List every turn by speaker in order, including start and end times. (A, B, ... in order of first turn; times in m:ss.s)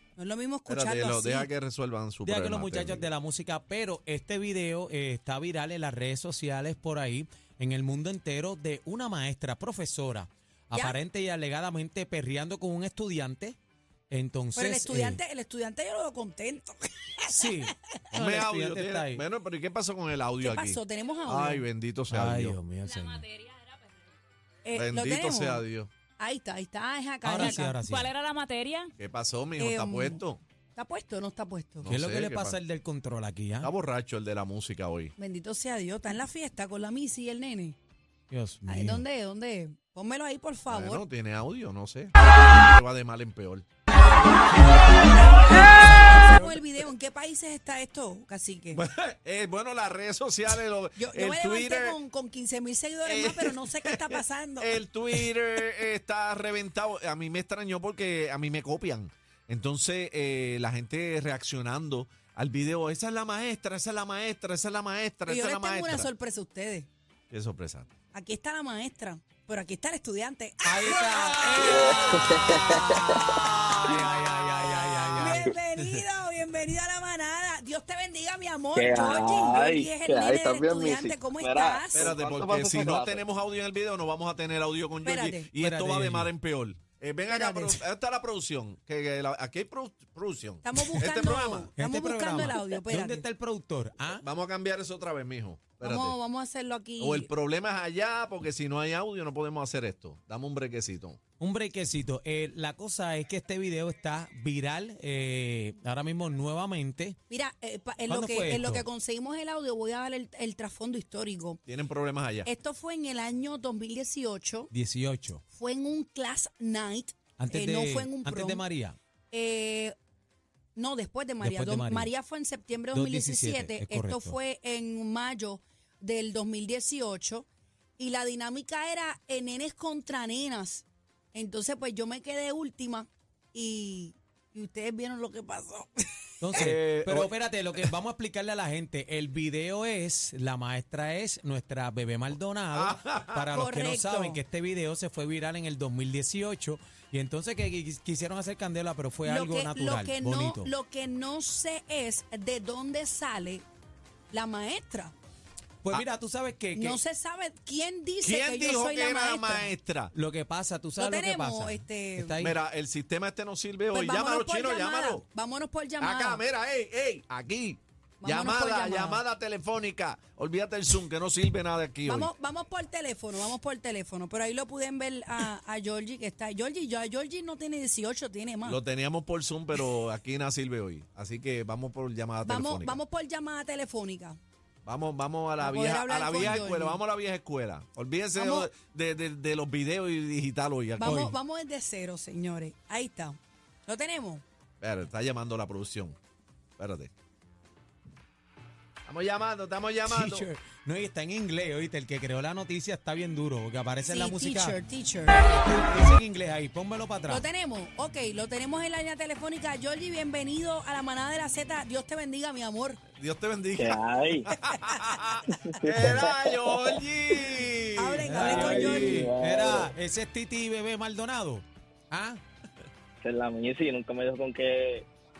0:00.2-0:01.5 A
0:00.7-0:03.1 B
0:02.2-0:13.6 C
0:14.1-0:15.2 C
0:14.5-0:17.7 A
0:17.3-0:19.2 C
0:18.1-0:22.6 B
0:20.4-0:21.7 A
0:22.1-0:23.2 C
0:22.8-0:24.1 D
0:24.6-0:25.6 A
0:24.7-0:25.9 B
0:26.2-0:27.8 A
0:27.2-0:28.1 C
0:27.3-0:28.9 D
0:29.0-0:30.4 B
0:29.6-0:30.2 A
0:30.8-0:31.9 A
0:31.8-0:32.6 B
0:31.8-0:33.7 C
0:33.6-0:35.1 B
0:35.2-0:37.8 A
0:38.3-0:39.0 C
0:38.7-0:41.0 A
0:40.7-0:43.6 B
0:43.9-0:48.8 A
0:45.5-0:46.5 B
0:48.7-0:52.0 B
0:51.0-0:54.8 A
0:53.0-1:06.1 B
1:05.3-1:06.9 A
1:07.3-1:07.9 B
1:08.1-1:12.3 A
1:10.6-1:15.5 C
1:11.6-1:13.2 E
1:15.2-1:22.1 A
1:18.7-1:23.2 E
1:21.9-1:31.7 B
1:25.0-1:25.5 A
1:25.6-1:26.3 C
1:27.3-1:27.8 A
1:30.6-1:33.2 A
1:31.8-1:34.2 C
1:34.1-1:36.2 B
1:35.8-1:37.3 A
1:37.0-1:41.2 B
1:41.4-1:47.2 C
1:47.3-1:51.6 A
1:48.1-1:48.8 C
1:51.7-1:52.5 B
1:52.4-1:54.7 A
1:54.7-1:55.4 C
1:55.5-1:58.6 A
1:57.4-1:59.0 C
1:59.3-1:59.9 A
2:00.8-2:07.5 A
2:01.4-2:02.1 C
2:02.9-2:04.4 C
2:08.0-2:16.6 A
2:16.4-2:30.7 C
2:16.5-2:17.8 B
2:22.7-2:23.4 B
2:23.5-2:24.4 A
2:29.2-2:33.6 A
2:34.3-2:35.1 A
2:35.8-2:37.0 C
2:36.7-2:39.7 A
2:38.2-2:40.1 B
2:40.1-2:42.6 C
2:41.0-2:42.4 A
2:42.4-2:45.2 B
2:43.9-2:46.4 A
2:46.0-2:52.3 B
2:48.2-2:49.2 A
2:52.0-2:58.8 A
2:58.6-3:03.0 B
3:02.4-3:04.4 A
3:04.8-3:11.2 B
3:05.6-3:07.0 A
3:08.4-3:08.7 A
3:11.0-3:14.4 A
3:11.0-3:11.4 C
3:14.8-3:16.2 B
3:16.8-3:17.1 B
3:19.0-3:20.5 B
3:20.0-3:24.8 C
3:24.1-3:25.4 A
3:25.3-3:27.4 C
3:27.3-3:33.0 A
3:33.2-3:38.8 B
3:33.7-3:34.5 E
3:34.7-3:35.0 A
3:35.6-3:37.0 E
3:38.0-3:39.3 A
3:38.2-3:42.4 C
3:38.4-3:39.9 E
3:43.2-3:45.1 E